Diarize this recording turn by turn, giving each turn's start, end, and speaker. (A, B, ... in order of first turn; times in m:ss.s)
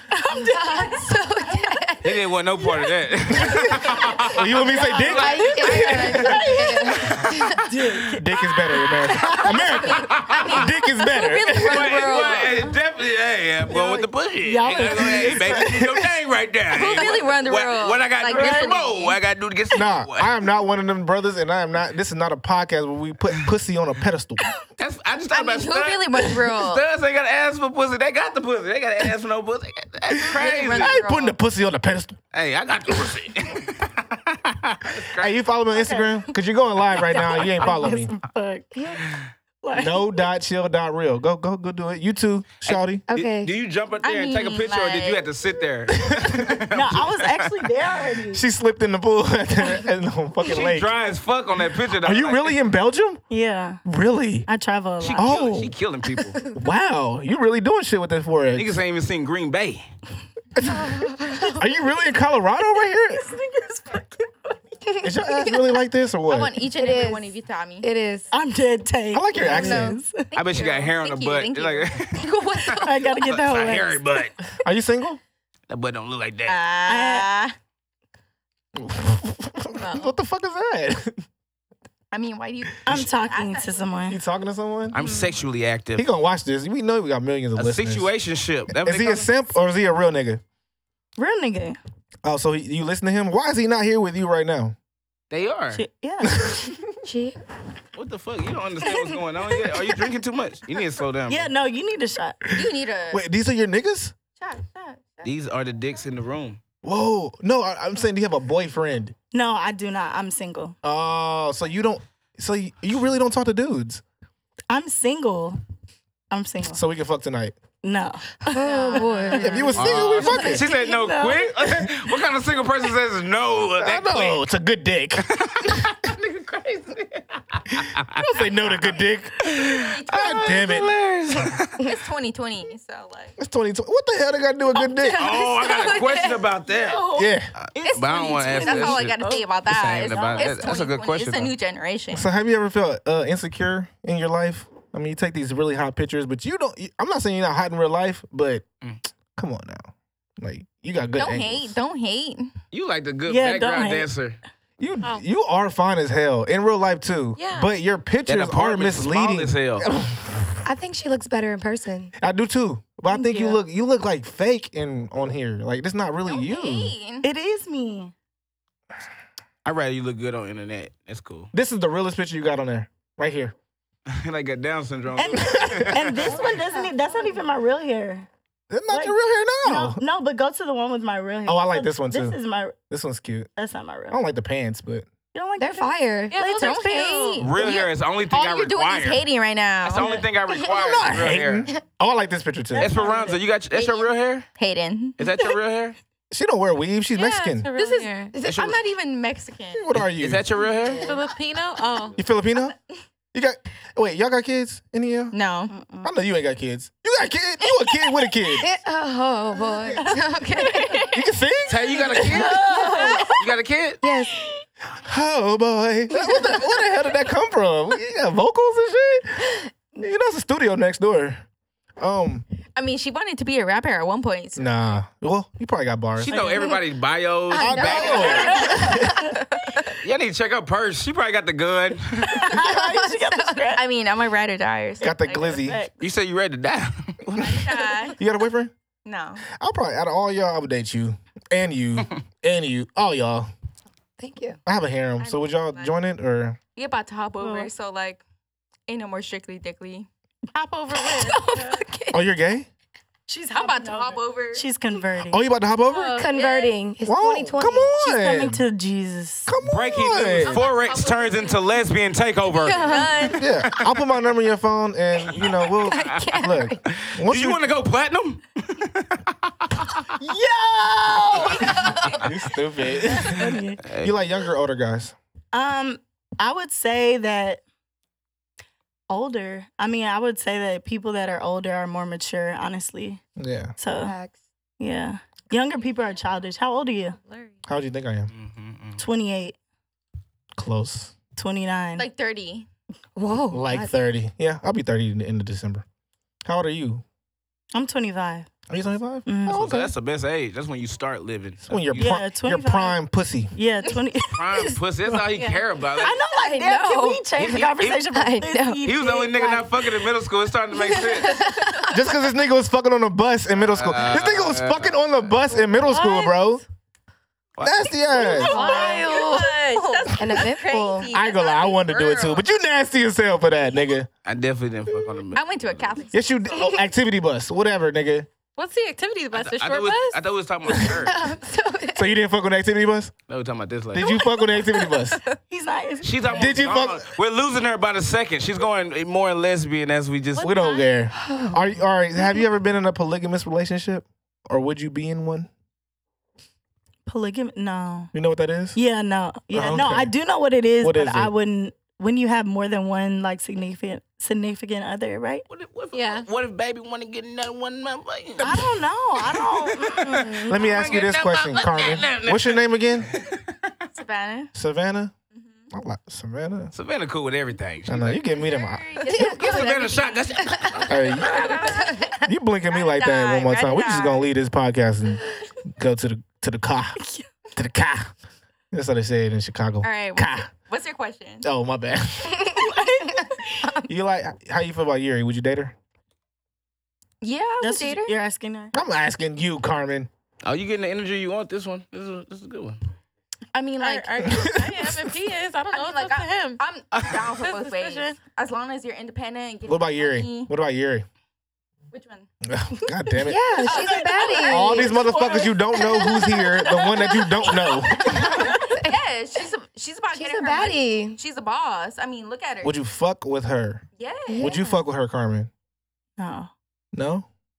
0:00.1-0:01.5 A
0:00.8-0:02.0 B
0:02.0-0:08.0 C
0:03.3-0:06.6 D
0:03.5-0:04.1 A
0:04.7-0:10.0 A
0:05.2-0:07.6 B
0:05.4-0:06.4 E
0:08.1-0:12.2 D
0:09.6-0:12.7 E
0:09.9-0:10.6 C
0:11.5-0:20.3 C
0:13.6-0:15.6 A
0:14.9-0:16.0 D
0:16.7-0:19.2 E
0:18.4-0:18.7 A
0:19.7-0:24.4 D
0:24.8-0:31.0 C
0:25.3-0:26.8 E
0:30.2-0:31.4 E
0:30.3-0:32.2 D
0:32.3-0:35.3 C
0:35.2-0:38.1 D
0:35.7-0:36.3 A
0:37.0-0:39.0 A
0:38.7-0:39.0 B
0:39.6-0:40.3 A
0:39.7-0:43.0 D
0:42.6-0:47.5 C
0:43.1-0:43.5 B
0:44.0-0:45.2 E
0:46.0-0:46.6 D
0:46.7-0:48.4 A
0:48.3-0:50.9 D
0:50.4-0:52.6 C
0:52.0-0:53.2 D
0:53.3-0:53.8 A
0:53.8-0:54.5 D
0:54.5-0:55.4 A
0:55.0-0:56.4 C
0:55.1-0:55.7 D
0:56.5-0:58.7 D
0:58.5-0:59.9 C
1:00.6-1:03.2 D
1:00.9-1:01.5 B
1:01.3-1:01.7 A
1:03.1-1:04.6 A
1:05.0-1:06.5 D
1:05.4-1:07.9 E
1:06.7-1:08.3 B
1:08.3-1:10.2 A
1:09.1-1:10.0 D
1:09.4-1:10.0 B
1:10.3-1:12.3 E
1:10.3-1:14.4 C
1:12.6-1:14.0 A
1:14.6-1:15.2 D
1:15.7-1:16.6 C
1:16.5-1:17.5 E
1:16.8-1:17.5 A
1:18.7-1:21.2 D
1:19.7-1:20.1 F
1:22.1-1:24.0 E
1:22.8-1:24.2 A
1:24.1-1:25.0 D
1:24.9-1:26.0 C
1:25.0-1:25.3 A
1:25.9-1:28.1 D
1:27.6-1:29.3 C
1:28.7-1:30.4 D
1:31.2-1:31.8 A
1:32.2-1:34.7 D
1:35.3-1:35.8 C
1:35.7-1:36.5 A
1:36.3-1:36.8 D
1:37.0-1:37.4 B
1:37.9-1:41.5 C
1:41.3-1:42.4 A
1:42.5-1:44.1 D
1:42.5-1:43.2 E
1:44.4-1:45.3 E
1:45.2-1:46.6 C
1:46.8-1:49.1 D
1:49.3-1:50.8 A
1:50.8-1:54.0 D
1:54.7-1:55.6 A
1:56.3-1:56.8 A
1:56.7-1:57.6 D
1:57.8-2:01.8 A
1:58.5-1:59.9 B
1:58.6-1:59.8 E
1:59.3-2:00.6 D
1:59.7-2:04.4 C
2:03.8-2:05.9 D
2:05.2-2:08.4 C
2:07.7-2:10.9 D
2:09.4-2:11.9 C
2:09.6-2:10.8 E
2:11.8-2:13.3 E
2:13.4-2:15.3 D
2:15.1-2:21.5 C
2:15.6-2:16.3 E
2:16.7-2:19.4 A
2:17.1-2:17.5 D
2:17.8-2:22.3 E
2:20.0-2:20.8 A
2:22.1-2:28.6 D
2:29.4-2:29.9 D
2:30.4-2:31.8 D
2:31.2-2:32.5 E
2:32.7-2:34.4 C
2:33.3-2:34.1 A
2:34.8-2:40.5 D
2:37.4-2:37.7 F
2:38.3-2:39.9 C
2:40.6-2:42.1 B
2:42.2-2:46.9 D
2:43.1-2:43.6 A
2:46.3-2:47.2 E
2:47.2-2:48.1 A
2:49.6-2:51.5 C
2:51.5-2:53.5 D
2:54.1-2:56.4 C
2:55.2-2:58.3 A
2:55.6-2:56.0 D
2:56.6-2:56.9 B
2:58.7-3:00.0 D
2:58.9-3:02.8 A
3:01.4-3:02.4 D
3:02.9-3:03.5 D
3:03.6-3:04.2 A
3:04.1-3:05.1 D
3:05.3-3:07.4 A
3:05.6-3:06.5 B
3:06.3-3:07.4 F
3:06.4-3:10.2 E
3:07.4-3:09.2 C
3:09.8-3:11.7 C
3:10.7-3:12.9 D
3:12.7-3:13.4 A
3:12.8-3:14.4 C
3:13.7-3:15.2 E
3:15.2-3:16.0 C
3:16.3-3:17.7 D
3:17.1-3:18.4 F
3:17.8-3:19.9 E
3:18.4-3:18.8 C
3:19.7-3:20.4 D
3:19.9-3:21.0 C
3:20.8-3:21.2 A
3:21.0-3:22.2 F
3:22.1-3:22.8 D
3:23.3-3:25.3 D
3:25.3-3:25.7 E
3:25.7-3:26.1 A
3:26.0-3:28.7 D
3:27.6-3:28.2 E
3:28.6-3:31.0 B
3:30.1-3:31.2 E
3:31.1-3:32.5 D
3:31.7-3:34.0 C
3:32.2-3:33.4 A
3:32.8-3:33.4 B
3:34.0-3:34.4 B
3:35.0-3:41.4 D
3:36.1-3:36.6 B
3:42.0-3:42.4 D
3:42.8-3:44.7 E
3:44.6-3:46.4 D
3:46.2-3:48.8 C
3:46.3-3:46.6 A
3:47.5-3:49.3 B
3:47.6-3:49.1 D
3:48.0-3:49.3 E
3:48.4-3:49.4 A
3:49.9-3:52.6 C
3:52.2-3:53.8 A
3:52.5-3:53.6 B
3:53.7-3:55.6 E
3:55.0-3:55.8 D
3:55.6-3:55.9 A
3:56.0-3:57.6 C
3:57.4-3:58.2 E
3:58.2-3:58.7 D
3:59.0-3:59.4 E
3:59.5-4:03.5 D
4:04.2-4:04.6 B
4:04.6-4:06.6 D
4:05.2-4:05.9 E
4:06.8-4:08.2 E
4:07.4-4:07.7 A
4:08.9-4:10.1 E
4:10.5-4:11.4 F
4:11.0-4:12.2 B
4:12.1-4:12.7 D
4:13.3-4:15.4 A
4:13.5-4:14.6 E
4:15.2-4:16.2 D
4:15.9-4:16.3 F
4:16.1-4:17.9 B
4:16.2-4:16.8 E
4:17.0-4:18.6 D
4:17.9-4:19.5 A
4:19.5-4:20.6 D
4:19.6-4:23.1 C
4:20.3-4:21.8 E
4:22.7-4:23.4 E
4:22.8-4:23.4 B
4:23.4-4:27.6 D
4:25.3-4:30.1 C
4:25.9-4:26.8 B
4:30.2-4:32.2 A
4:31.8-4:35.1 D
4:33.1-4:33.8 A
4:33.2-4:34.2 C
4:35.5-4:37.6 A
4:39.1-4:43.2 A
4:43.4-4:43.7 D
4:43.8-4:44.1 A
4:43.9-4:44.3 B
4:44.8-4:47.2 A
4:47.2-4:47.6 F
4:47.6-4:48.3 D
4:48.3-4:49.0 C
4:49.0-4:49.5 A
4:50.5-4:51.1 D
4:51.4-4:52.0 A
4:52.0-4:52.7 E
4:53.2-4:53.9 B
4:53.5-4:55.8 D
4:56.4-4:57.0 D
4:57.7-4:58.5 A
4:58.7-4:59.9 D
4:59.2-4:59.7 A
4:59.4-5:02.2 C
5:01.6-5:03.5 D
5:01.9-5:03.0 A
5:03.5-5:05.2 A
5:04.3-5:06.2 C
5:05.3-5:05.6 F
5:06.0-5:09.9 A
5:06.4-5:07.3 E
5:07.4-5:08.0 C
5:08.2-5:08.5 B
5:08.2-5:08.8 E
5:08.8-5:11.4 C
5:10.9-5:12.0 E
5:11.2-5:12.0 B
5:11.9-5:16.6 D
5:13.6-5:15.0 C
5:15.7-5:16.6 F
5:17.6-5:18.6 C
5:17.6-5:18.6 D
5:18.1-5:22.4 E
5:18.2-5:20.0 F
5:18.6-5:19.0 A
5:20.1-5:21.1 B
5:21.1-5:24.1 D
5:24.2-5:26.0 C
5:25.3-5:26.8 E
5:26.1-5:28.3 D
5:28.6-5:30.2 F
5:29.3-5:31.3 C
5:31.0-5:32.1 B
5:31.9-5:33.1 D
5:33.3-5:34.1 C
5:33.9-5:35.2 D
5:34.7-5:35.1 F
5:35.5-5:36.5 A
5:36.0-5:40.5 C
5:36.3-5:37.1 D
5:40.4-5:41.0 F
5:40.4-5:45.5 D
5:41.1-5:41.6 B
5:47.0-5:48.1 A
5:48.1-5:48.8 D
5:48.7-5:55.4 A
5:49.5-5:50.1 D
5:50.8-5:51.3 D
5:55.5-6:03.7 C
5:55.9-5:56.3 F
5:58.4-6:00.4 A
6:00.4-6:03.1 D
6:03.9-6:04.5 E
6:04.5-6:05.1 D
6:05.3-6:05.6 E
6:05.7-6:06.7 D
6:06.7-6:08.2 C
6:07.9-6:09.3 D
6:08.3-6:12.1 E
6:09.1-6:11.7 C
6:09.2-6:09.4 B
6:10.9-6:11.5 D
6:11.7-6:12.2 B
6:12.2-6:17.0 D
6:12.7-6:14.3 E
6:17.0-6:17.2 A
6:17.5-6:18.1 D
6:18.7-6:20.5 D
6:19.8-6:21.4 E
6:21.4-6:22.6 D
6:22.5-6:23.8 A
6:23.9-6:25.7 D
6:27.2-6:28.1 E
6:27.6-6:28.7 A
6:28.7-6:30.1 D
6:30.4-6:32.8 C
6:33.5-6:34.2 E
6:33.8-6:36.6 F
6:34.2-6:35.0 D
6:35.7-6:40.5 E
6:37.4-6:38.2 F
6:39.6-6:41.0 D
6:41.9-6:42.3 E
6:42.4-6:43.7 D
6:43.2-6:45.2 B
6:43.6-6:52.8 E
6:43.6-6:46.2 A
6:44.4-6:48.4 D
6:46.6-6:47.3 F
6:48.1-6:48.9 B
6:48.3-6:48.7 A
6:50.1-6:51.2 B
6:52.6-6:53.8 D
6:54.0-6:54.8 E
6:54.3-6:54.6 B
6:54.4-6:55.5 D
6:56.2-6:56.5 A
6:56.9-6:57.3 D